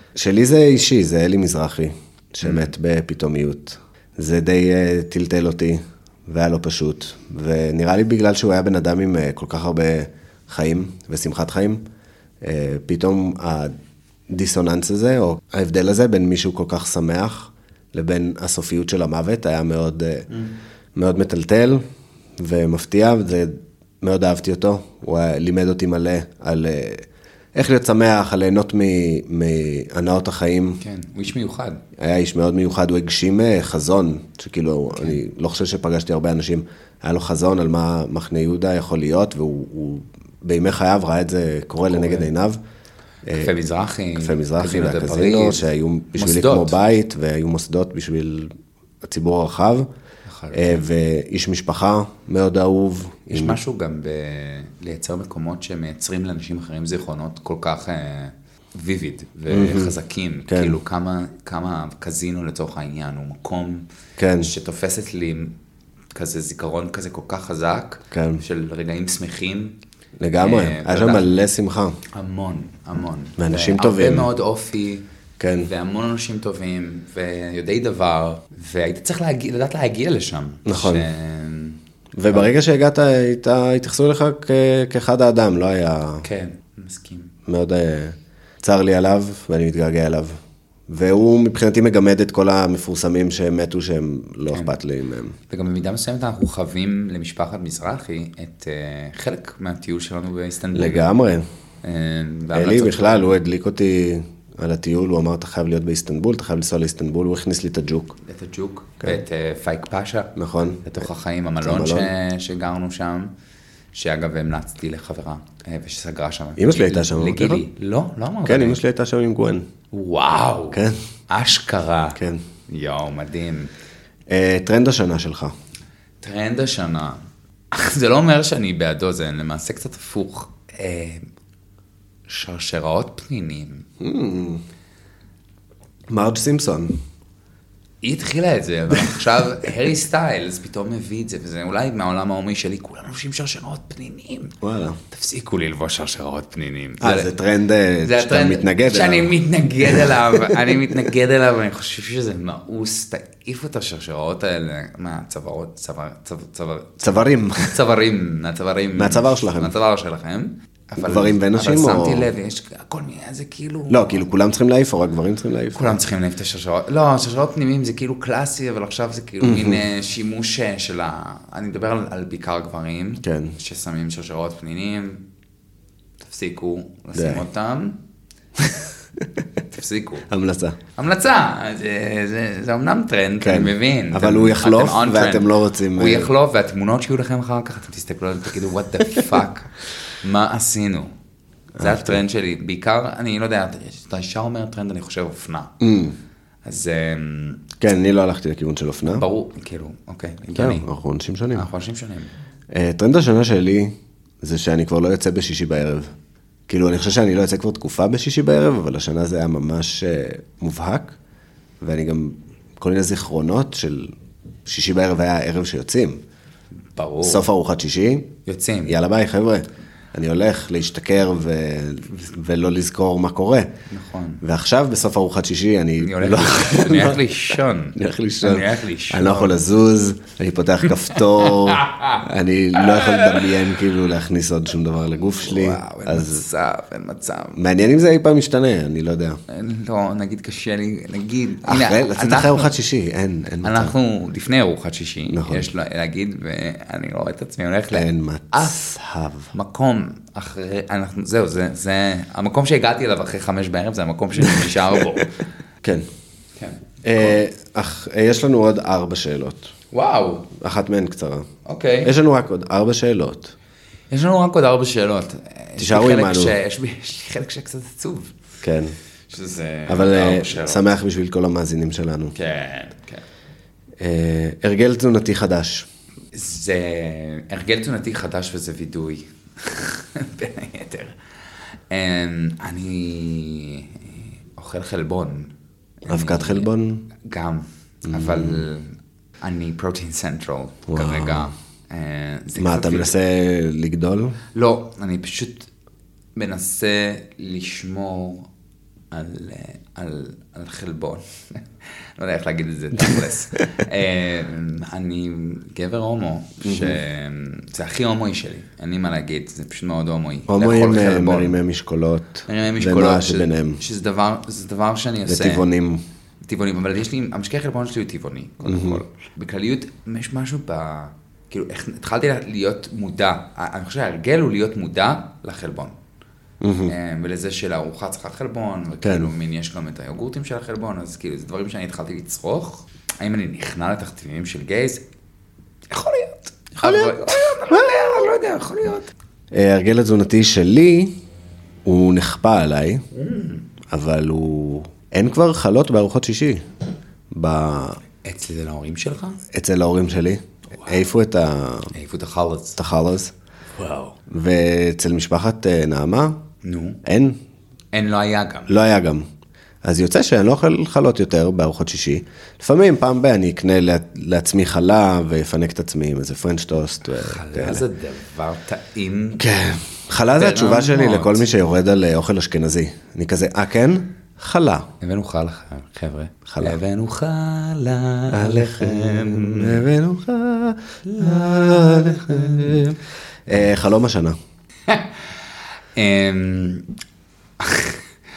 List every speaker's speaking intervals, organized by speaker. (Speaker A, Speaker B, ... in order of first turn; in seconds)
Speaker A: 0.2-11.8, 12.4-13.8, 14.3-20.3, 20.9-21.8, 22.4-30.8, 32.0-42.6, 43.3-43.5, 44.2-48.5, 49.0-49.9, 50.5-53.6, 59.5-60.0, 60.5-60.8, 64.2-64.5, 68.1-68.4, 70.2-72.0, 73.4-74.3, 75.4-75.7, 80.7-81.1, 82.2-86.2, 87.5-90.3, 90.9-95.4, 100.7-101.4, 102.5-108.2, 110.4-111.0, 111.6-112.1, 116.6-117.6, 118.5-119.7, 120.7-121.0, 122.2-122.4, 124.3-125.5, 134.0-134.6, 136.1-137.0, 144.6-145.0, 147.0-150.8, 157.0-157.8, 158.9-159.7, 161.0-162.3, 163.9-166.0, 169.4-169.8, 173.2-173.6, 177.1-177.4, 180.3-180.8, 183.4-186.3, 191.8-192.2, 195.8-196.2, 197.8-199.3, 200.5-201.7, 202.7-206.1, 206.7-211.2, 211.8-214.1, 214.7-216.2, 217.2-218.3, 218.8-223.7, 224.4-227.2, 227.9-236.4, 237.5-239.4, 241.6-243.9, 245.3-245.7, 247.9-249.5, 257.0-259.7, 260.6-261.5, 262.0-263.5, 265.8-266.6, 268.6-268.9, 269.9-272.3, 274.0-275.9, 286.1-287.1, 288.1-288.7, 290.9-291.5, 292.6-294.4, 303.0-303.6, 306.6-307.0, 310.5-313.8, 315.3-316.0, 318.6-319.0, 326.6-326.9, 329.0-329.3, 336.8-338.3, 339.5-341.1, 341.8-343.0, 343.9-346.7, 347.3-348.0, 349.5-351.9, 352.8-353.3, 354.3-356.4, 357.0-357.4, 358.7-359.3, 359.8-367.9, 369.4-374.9, 376.4-376.8, 378.3-384.4
Speaker B: 2.4-2.7, 30.8-31.8, 41.9-42.3, 43.3-46.8, 50.3-50.9, 53.3-63.8, 64.4-65.5, 66.1-69.8, 70.4-71.3, 72.1-75.0, 75.6-81.8, 86.2-87.3, 95.5-101.1, 101.8-103.4, 108.2-113.3, 113.9-118.8, 119.9-123.7, 126.2-127.2, 127.7-131.2, 132.3-133.9, 138.0-144.6, 145.1-147.3, 148.0-164.2, 165.7-175.2, 176.2-178.0, 179.7-180.3, 180.9-191.1, 191.8-195.7, 196.6-197.6, 199.1-200.9, 201.5-202.3, 216.9-217.5, 218.4-219.0, 223.9-224.4, 226.0-229.6, 231.1-232.2, 232.8-233.6, 235.4-237.6, 239.5-242.7, 243.6-248.8, 249.5-255.3, 256.6-257.4, 259.9-260.5, 261.6-262.1, 264.1-268.3, 269.3-270.9, 272.3-273.2, 276.3-281.2, 281.9-285.5, 286.0-286.7, 287.2-293.1, 294.5-295.7, 296.4-298.5, 299.1-311.6, 312.5-315.7, 316.4-326.0, 326.9-335.0, 335.9-339.1, 343.1-343.7, 348.2-349.4, 351.9-352.8, 353.8-354.2, 356.6-357.0, 357.9-358.7, 367.1-369.4, 370.3-371.5, 375.0-379.8, 381.1-382.9, 384.9-385.2, 385.9-386.9, 387.6-388.0